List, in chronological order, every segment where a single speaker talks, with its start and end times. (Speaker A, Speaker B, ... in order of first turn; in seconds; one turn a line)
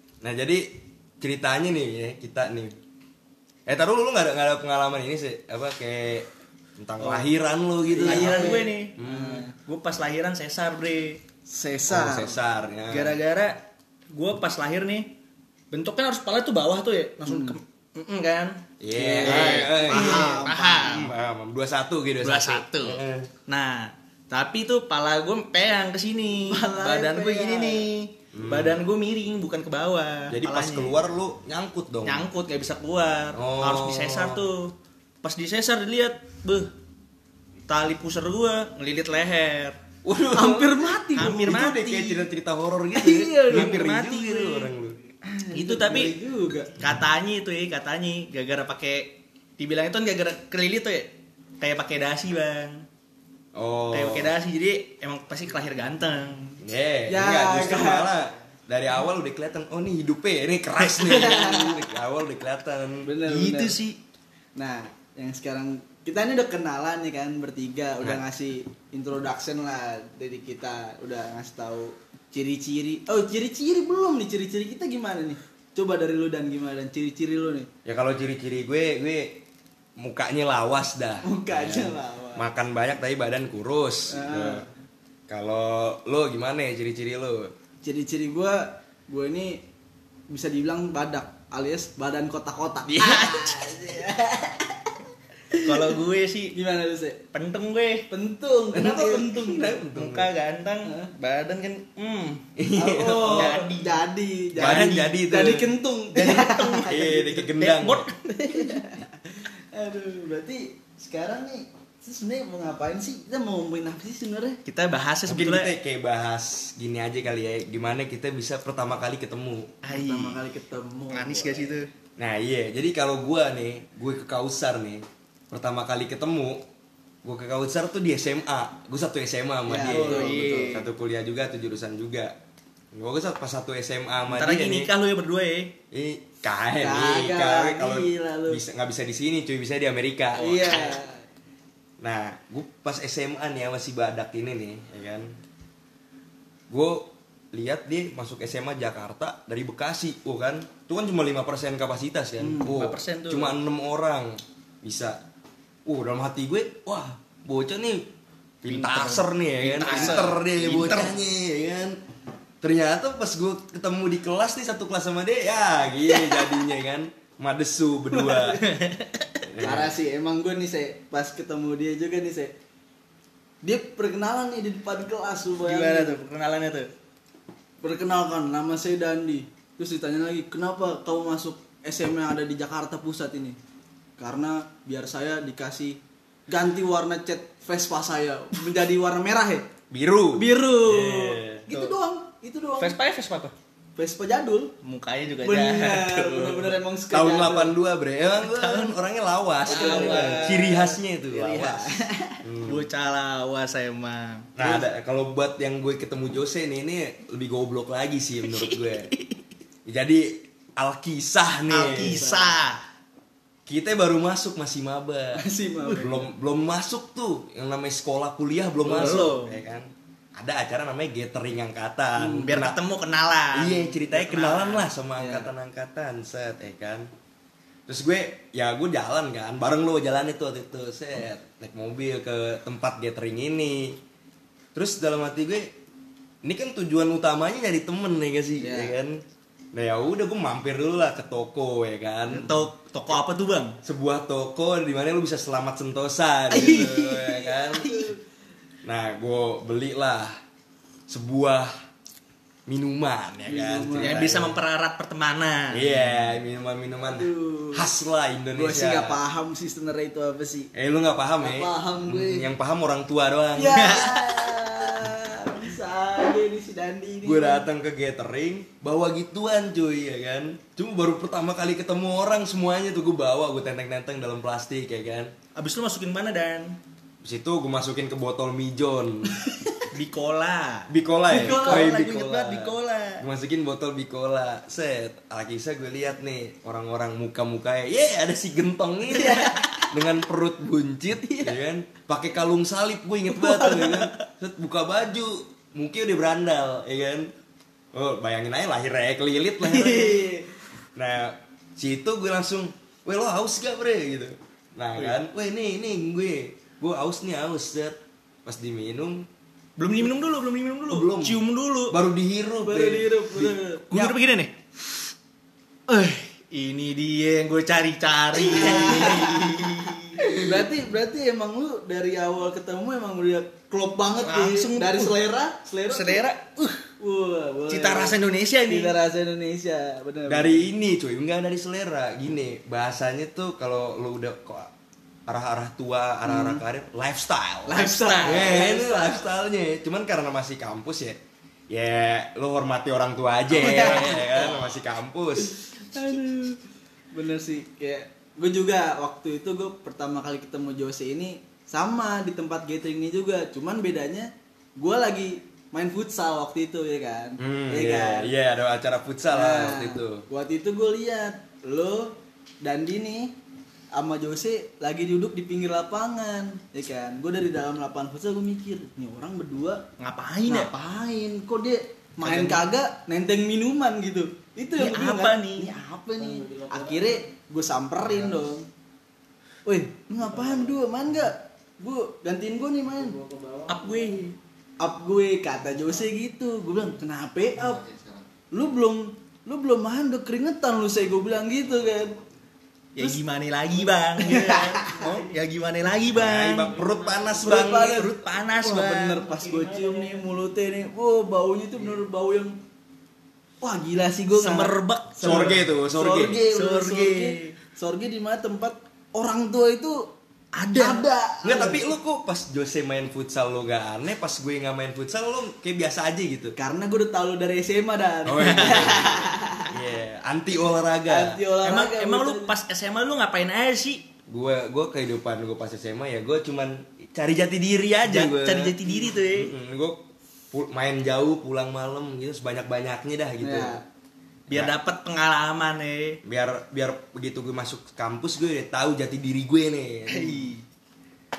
Speaker A: 0.2-2.7
Speaker A: 3.7-9.4
Speaker B: 7.0-7.3
Speaker C: 7.9-9.5
Speaker B: 8.0-9.0
Speaker B: 9.5-11.2
Speaker C: 11.5-12.4
Speaker A: 11.9-13.2
Speaker B: 12.9-15.1
Speaker B: 15.7-18.6
Speaker C: 17.2-17.6
Speaker A: 18.8-23.3
Speaker C: 18.9-21.1
Speaker B: 19.2-21.1
Speaker B: 22.2-31.0
Speaker C: 26.5-27.9
Speaker A: 28.3-28.8
Speaker A: 30.3-32.3
Speaker B: 32.0-36.7
Speaker A: 33.3-34.5
Speaker B: 37.7-39.8
Speaker A: 40.0-45.0
Speaker C: 40.3-41.6
Speaker B: 41.1-42.3
Speaker C: 42.9-43.8
Speaker B: 43.5-44.7
Speaker C: 45.2-46.7
Speaker B: 45.5-46.1
Speaker B: 46.8-52.8
Speaker A: 53.5-54.3
Speaker B: 53.9-56.6
Speaker A: 56.6-63.1
Speaker C: 57.1-58.1
Speaker C: 61.0-61.8
Speaker C: 63.0-63.8
Speaker B: 63.2-64.0
Speaker C: 64.5-77.7
Speaker A: 77.8-79.4
Speaker A: 80.0-84.7
Speaker C: 81.2-82.5
Speaker C: 84.1-84.7
Speaker A: 85.3-87.5
Speaker C: 87.8-89.6
Speaker C: 90.3-96.0
Speaker A: 92.8-93.7
Speaker B: 95.6-96.6
Speaker C: 96.5-97.2
Speaker B: 97.3-98.1
Speaker C: 98.1-99.8
Speaker A: 98.7-100.3
Speaker B: 99.9-102.4
Speaker C: 100.8-101.1
Speaker A: 102.6-103.6
Speaker C: 102.8-107.5
Speaker B: 103.2-105.6
Speaker A: 104.6-105.7
Speaker B: 106.1-108.8
Speaker A: 106.8-108.0
Speaker C: 108.2-114.6
Speaker B: 114.7-115.7
Speaker A: 115.3-119.7
Speaker B: 119.8-120.4
Speaker C: 119.9-121.8
Speaker B: 121.1-121.9
Speaker A: 122.2-126.6
Speaker A: 127.2-132.3
Speaker C: 129.7-130.8
Speaker B: 129.9-130.9
Speaker A: 132.9-134.9
Speaker B: 134.3-135.7
Speaker A: 135.9-140.9
Speaker C: 136.8-138.6
Speaker C: 140.4-141.2
Speaker B: 140.4-141.0
Speaker A: 142.0-145.3
Speaker A: 146.7-155.2
Speaker C: 152.4-152.7
Speaker B: 152.7-153.6
Speaker A: 155.8-158.1
Speaker A: 158.6-162.0
Speaker B: 158.7-161.1
Speaker C: 159.7-160.3
Speaker A: 162.6-168.6
Speaker C: 166.1-166.6
Speaker C: 168.1-168.8
Speaker B: 168.6-169.5
Speaker A: 169.5-169.9
Speaker C: 169.6-172.5
Speaker C: 173.6-176.2
Speaker B: 175.6-176.9
Speaker C: 177.8-183.6
Speaker C: 184.2-189.7
Speaker A: 189.9-191.7
Speaker C: 190.3-192.9
Speaker B: 192.8-193.5
Speaker C: 194.0-194.7
Speaker B: 194.8-196.8
Speaker C: 195.4-197.8
Speaker A: 197.1-202.9
Speaker B: 198.4-199.0
Speaker C: 199.6-202.4
Speaker B: 199.7-200.9
Speaker B: 202.6-204.5
Speaker A: 204.6-209.1
Speaker B: 208.4-209.4
Speaker A: 209.8-212.2
Speaker B: 211.7-212.8
Speaker C: 211.9-212.5
Speaker A: 213.7-215.4
Speaker C: 215.3-216.3
Speaker A: 215.9-222.8
Speaker C: 218.8-219.3
Speaker B: 218.9-219.6
Speaker C: 222.2-222.6
Speaker B: 222.3-224.8
Speaker A: 223.5-227.1
Speaker C: 225.2-225.5
Speaker A: 227.9-234.0
Speaker A: 234.7-235.7
Speaker A: 236.4-239.2
Speaker C: 238.6-238.9
Speaker A: 239.7-242.7
Speaker B: 242.3-243.8
Speaker A: 243.8-247.9
Speaker B: 246.5-247.3
Speaker C: 247.4-248.1
Speaker A: 248.8-250.4
Speaker A: 251.1-251.8
Speaker A: 252.7-254.6
Speaker C: 253.5-254.3
Speaker B: 254.0-256.2
Speaker A: 255.7-259.2
Speaker C: 257.1-257.8
Speaker C: 258.5-260.7
Speaker A: 260.7-264.1
Speaker C: 261.4-262.5
Speaker C: 263.6-267.6
Speaker B: 263.7-264.5
Speaker A: 267.2-275.3
Speaker B: 275.5-276.8
Speaker A: 277.2-279.3
Speaker C: 279.4-279.9
Speaker B: 279.9-283.2
Speaker A: 280.9-297.3
Speaker C: 281.3-282.0
Speaker C: 289.3-289.8
Speaker C: 291.2-291.5
Speaker C: 293.4-294.0
Speaker A: 297.9-300.3
Speaker C: 299.6-300.5
Speaker A: 300.9-309.3
Speaker B: 309.8-312.0
Speaker A: 310.9-313.6
Speaker C: 312.6-314.2
Speaker B: 313.9-314.5
Speaker B: 315.9-320.4
Speaker A: 318.4-319.5
Speaker C: 318.4-326.2
Speaker A: 320.2-320.6
Speaker B: 324.2-325.2
Speaker B: 325.9-326.9
Speaker C: 327.0-330.7
Speaker B: 327.7-328.9
Speaker A: 330.3-334.7
Speaker A: 335.3-345.6
Speaker C: 336.2-336.6
Speaker C: 337.6-339.2
Speaker B: 337.7-338.6
Speaker C: 343.5-344.6
Speaker C: 345.6-346.6
Speaker C: 347.1-358.3
Speaker A: 357.4-360.2
Speaker C: 359.3-363.3
Speaker C: 363.9-369.8
Speaker B: 370.0-370.7
Speaker C: 370.4-378.7
Speaker B: 372.2-372.7
Speaker B: 374.8-375.7
Speaker C: 379.6-383.6
Speaker B: 383.7-384.4
Speaker C: 384.8-387.9
Speaker C: 388.5-392.2
Speaker B: 392.9-400.2
Speaker C: 394.2-395.2
Speaker A: 396.1-398.1
Speaker C: 397.4-402.6
Speaker C: 403.6-410.1
Speaker B: 404.3-405.6
Speaker A: 405.2-406.4
Speaker B: 406.5-407.6
Speaker B: 410.5-411.1
Speaker C: 410.7-411.9
Speaker A: 411.4-416.6
Speaker C: 416.6-419.7
Speaker A: 418.2-421.4
Speaker B: 418.4-419.3
Speaker C: 421.1-422.5
Speaker B: 421.6-424.1
Speaker A: 424.3-433.8
Speaker B: 428.0-429.5
Speaker C: 433.4-433.8
Speaker A: 434.5-434.7
Speaker B: 434.5-436.2
Speaker A: 436.2-440.5
Speaker B: 440.1-440.6